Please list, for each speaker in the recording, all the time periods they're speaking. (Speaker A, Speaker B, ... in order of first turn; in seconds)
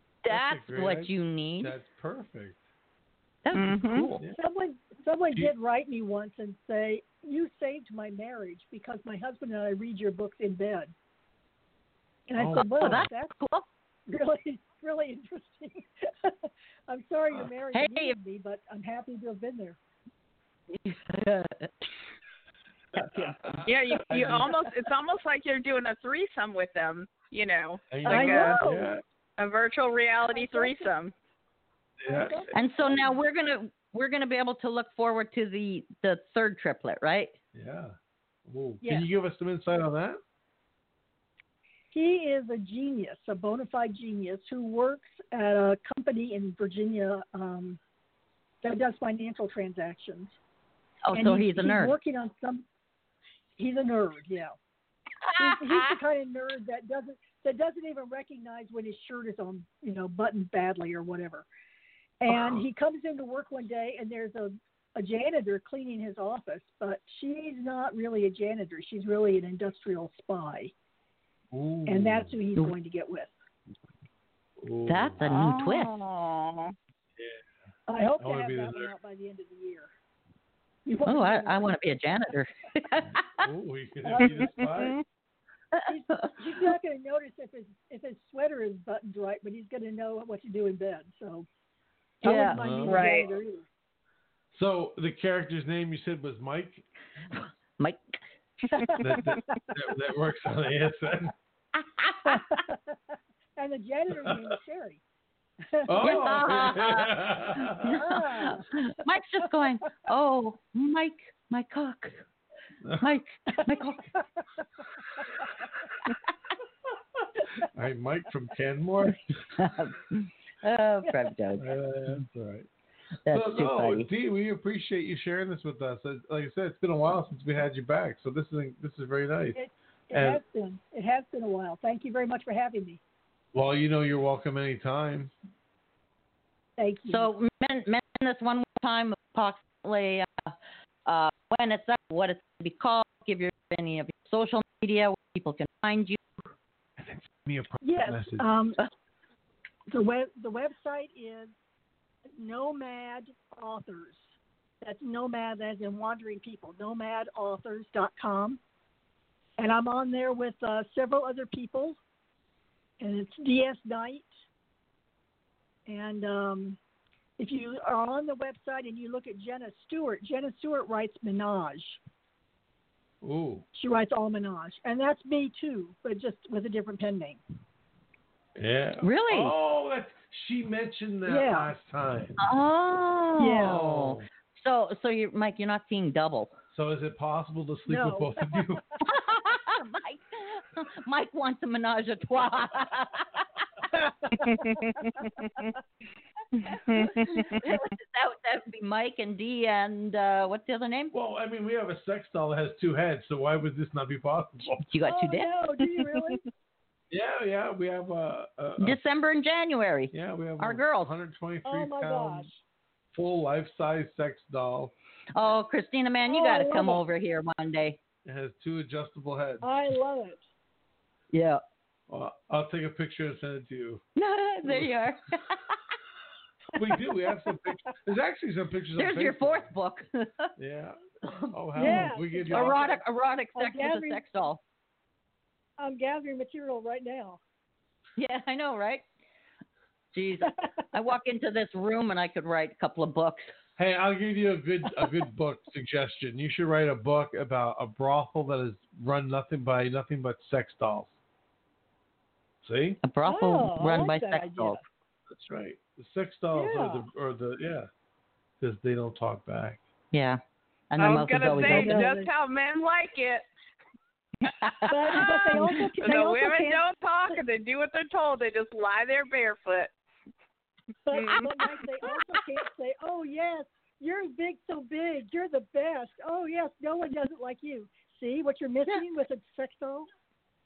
Speaker A: 0.2-1.7, 3.4-4.2, 12.6-13.7, 17.7-18.2, 20.7-21.7, 23.0-23.4, 32.5-37.3, 51.1-52.0, 55.2-56.0, 74.9-75.9, 81.0-83.4, 85.8-86.3, 92.2-92.6, 97.3-98.2, 101.8-102.4, 106.0-112.2, 113.0-114.1, 119.5-121.7, 123.2-124.1, 137.1-140.5, 141.1-146.2, 179.0-179.5, 182.4-186.6, 189.1-193.4, 196.6-201.1, 204.9-205.5, 208.8-211.1, 215.3-218.0, 221.3-221.6, 224.2-225.8, 229.0-230.5, 231.3-234.6, 238.2-239.0, 240.1-243.5, 253.0-254.8, 260.1-262.1, 264.5-265.9
Speaker B: 0.3-2.6, 12.3-13.1, 23.2-24.6, 27.9-29.0, 32.0-32.5, 37.5-40.2, 62.3-62.6, 71.5-72.4, 74.6-75.2, 77.2-77.4, 78.2-78.9, 83.4-85.0, 92.5-93.0, 94.5-96.8, 99.0-101.3, 104.2-104.5, 105.8-107.9, 117.7-119.6, 121.6-122.7, 123.3-129.6, 130.1-130.4, 133.5-135.3, 147.0-148.5, 173.2-173.7, 178.6-182.4, 183.6-184.2, 186.7-188.8, 201.1-204.8, 207.1-209.0, 210.1-212.5, 213.1-214.9, 218.2-219.7, 222.1-224.0, 224.6-224.9, 226.7-229.7, 230.6-232.8, 243.8-251.2, 252.6-253.0, 255.3-257.9, 258.6-259.8
Speaker C: 3.5-4.0, 23.6-28.7, 29.4-31.1, 75.2-76.7, 84.2-85.0, 92.9-93.3, 196.9-197.5, 261.0-263.5, 265.1-269.9, 271.1-271.8
Speaker D: 4.3-10.9, 12.3-13.3, 14.1-16.4, 16.9-19.8, 28.0-28.9, 30.3-30.9, 32.0-33.1, 38.8-39.1, 41.9-47.8, 48.6-50.4, 51.1-52.6, 53.6-54.6, 55.4-61.5, 62.2-70.7, 71.8-73.3, 77.9-79.9, 80.8-81.7, 84.1-84.4, 85.8-91.5, 92.2-93.7, 98.8-99.5, 102.3-102.9, 103.6-105.0, 105.7-106.6, 107.8-108.7, 113.5-113.8, 129.5-133.0, 136.8-137.3, 147.8-148.8, 149.9-151.5, 152.4-154.3, 154.8-158.6, 159.6-162.0, 163.0-164.3, 165.8-166.8, 167.4-172.0, 173.7-177.4, 181.2-181.7, 183.4-183.8, 187.9-188.8, 205.1-206.4, 211.6-212.6, 216.2-217.0, 219.6-220.4, 231.7-233.0, 233.6-234.2, 235.8-237.4, 253.2-254.8, 256.5-257.1, 261.5-262.3, 264.9-267.4, 271.1-280.1